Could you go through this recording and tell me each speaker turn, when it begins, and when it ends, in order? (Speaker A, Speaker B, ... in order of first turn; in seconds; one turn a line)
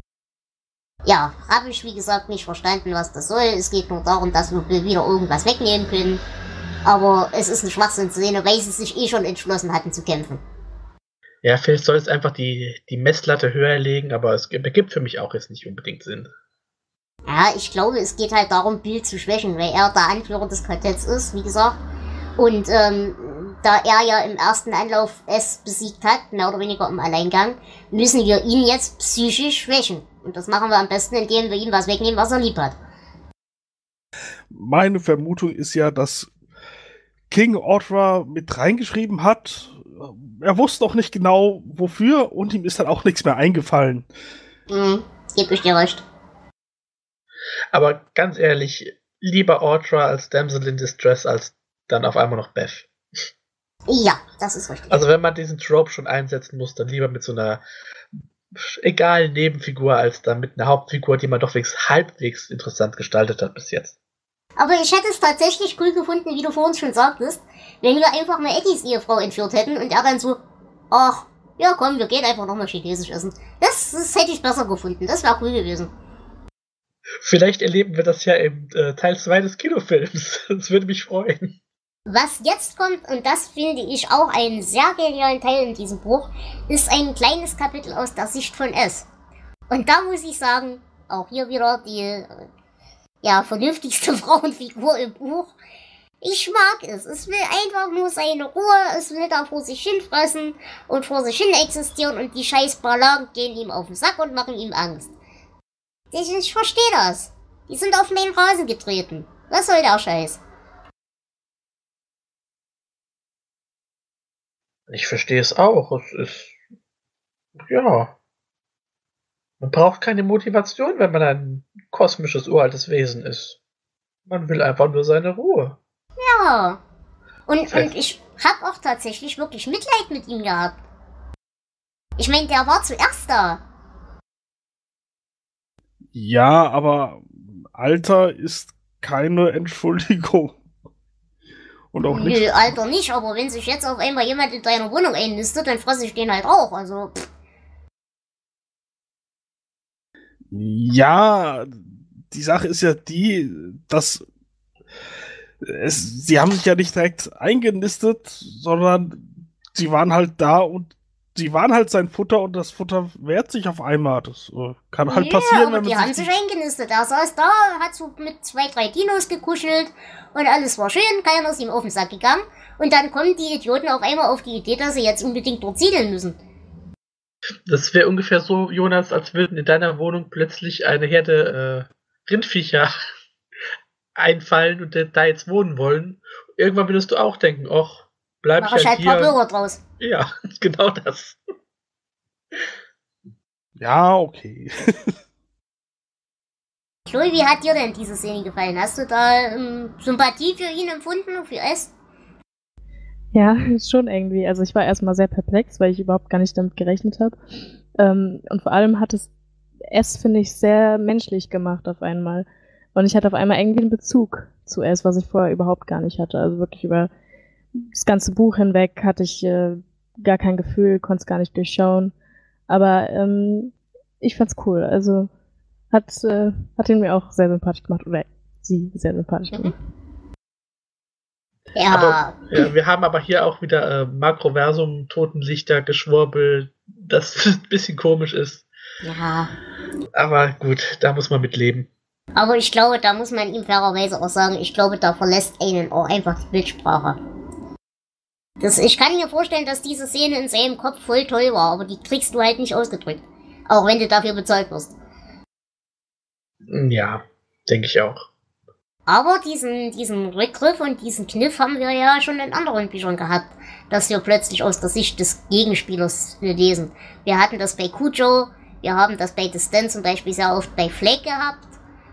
Speaker A: 1.1-6.2
Speaker A: 6.8-10.4
Speaker B: 11.4-16.3
Speaker A: 17.3-21.8
Speaker A: 22.4-32.7
Speaker C: 34.5-36.3
Speaker C: 37.3-44.0
Speaker A: 44.7-46.0
Speaker B: 47.7-52.9
Speaker A: 53.9-55.0
Speaker B: 54.9-57.6
Speaker B: 58.5-63.9
Speaker A: 64.6-70.4
Speaker A: 70.9-75.9
Speaker B: 77.2-81.6
Speaker A: 82.1-89.1
Speaker A: 89.7-92.4
Speaker A: 93.2-95.5
Speaker A: 96.2-105.1
Speaker A: 106.1-110.4
Speaker B: 114.9-116.5
Speaker B: 117.6-118.1
Speaker B: 119.6-123.6
Speaker B: 124.3-125.8
Speaker A: 126.2-126.8
Speaker A: 127.5-130.8
Speaker A: 132.2-133.6
Speaker C: 136.1-140.6
Speaker C: 141.9-142.8
Speaker A: 142.1-147.2
Speaker C: 150.5-151.8
Speaker C: 152.3-154.2
Speaker C: 155.6-166.3
Speaker A: 165.1-176.4
Speaker B: 177.7-182.9
Speaker B: 184.2-189.3
Speaker A: 188.6-189.8
Speaker B: 190.0-191.4
Speaker C: 193.8-195.1
Speaker A: 197.1-201.9
Speaker D: 203.3-207.3
Speaker D: 208.0-209.3
Speaker D: 209.9-217.1
Speaker D: 217.7-222.1
Speaker D: 222.7-225.3
Speaker D: 225.9-229.7
Speaker A: 231.8-232.7
Speaker B: 231.9-238.7
Speaker A: 239.0-239.5
Speaker B: 240.1-241.9
Speaker A: 242.3-247.2
Speaker A: 248.6-254.9
Speaker B: 256.7-258.2
Speaker A: 259.1-271.7